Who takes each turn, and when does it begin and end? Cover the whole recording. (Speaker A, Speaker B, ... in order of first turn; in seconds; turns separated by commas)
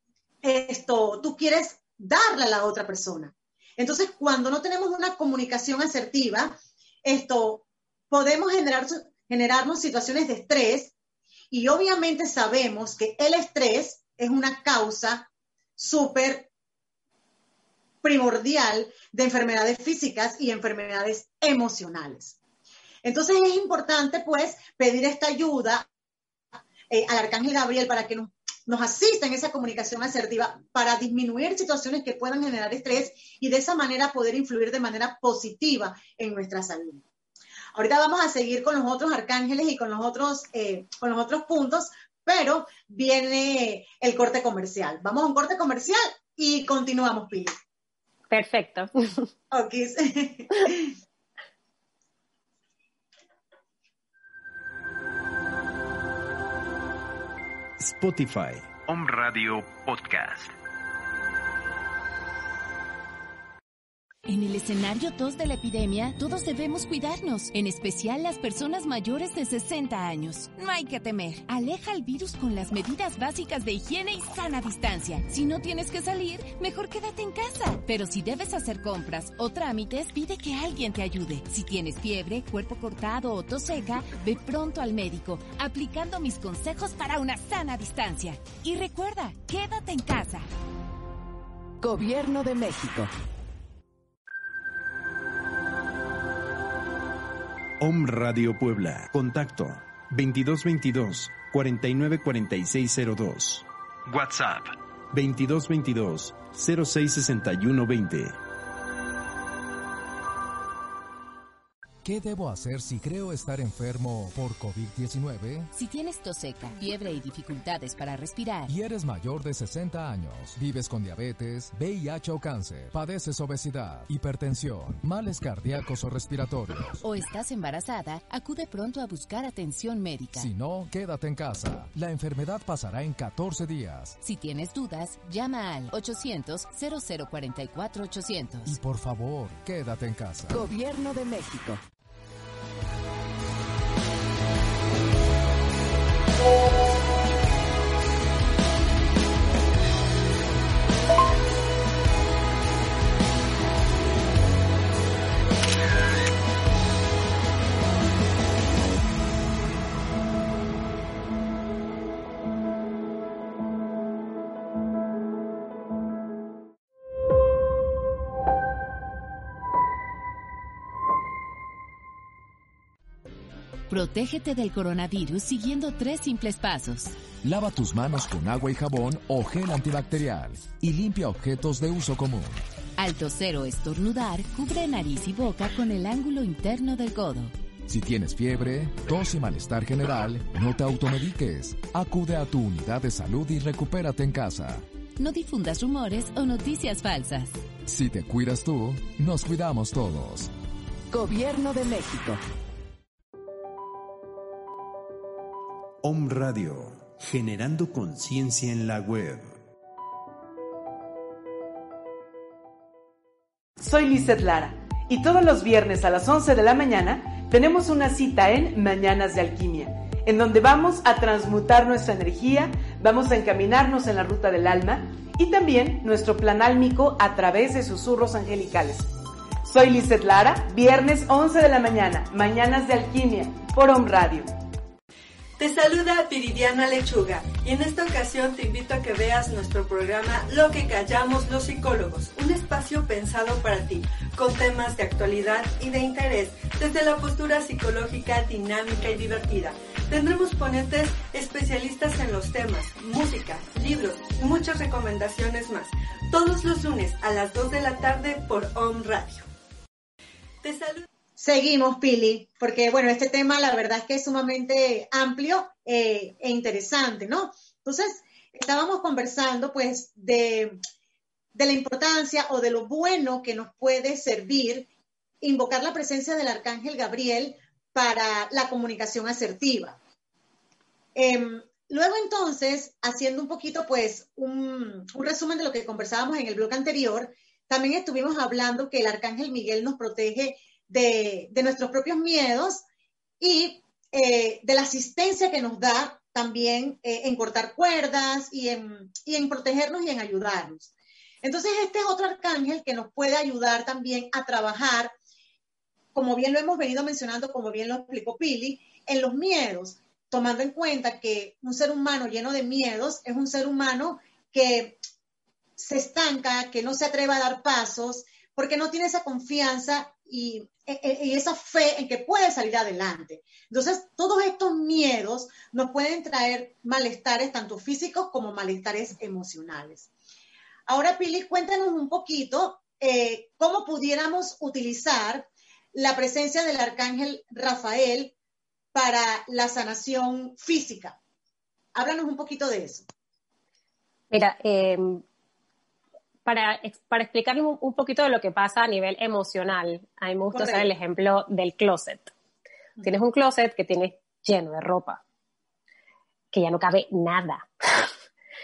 Speaker A: 0.4-10.9, Speaker A: 11.5-16.5, Speaker A: 18.0-22.4, Speaker A: 23.0-25.9, Speaker A: 26.9-37.0, Speaker A: 37.8-47.6, Speaker B: 48.3-49.3, Speaker A: 49.5-51.0, Speaker C: 57.8-60.5, Speaker D: 64.3-90.5, Speaker E: 91.8-93.1, Speaker C: 97.8-108.4, Speaker F: 112.0-115.7, Speaker D: 115.7-118.7, Speaker F: 118.7-127.0, Speaker D: 127.0-130.5, Speaker F: 130.4-134.2, Speaker D: 134.2-138.8, Speaker F: 138.7-140.6, Speaker E: 140.5-141.8, Speaker D: 173.9-177.2, Speaker F: 177.4-182.6, Speaker D: 183.0-187.5, Speaker F: 187.9-194.8, Speaker D: 195.2-197.6, Speaker F: 197.9-200.5, Speaker E: 201.1-202.4, Speaker C: 206.0-209.6, Speaker G: 213.8-229.1, Speaker G: 229.6-234.6, Speaker H: 235.6-259.5, Speaker H: 260.6-261.1, Speaker A: 261.4-270.8, Speaker A: 271.5-274.9, Speaker A: 275.4-280.0, Speaker A: 281.1-292.8, Speaker A: 293.4-300.9, Speaker A: 301.4-305.1, Speaker A: 306.1-315.0, Speaker A: 315.8-330.1, Speaker A: 330.9-338.3, Speaker A: 338.9-341.2, Speaker A: 341.9-343.1, Speaker B: 344.3-345.2, Speaker B: 346.4-352.3, Speaker A: 350.5-350.9, Speaker B: 353.0-355.2, Speaker B: 356.5-358.1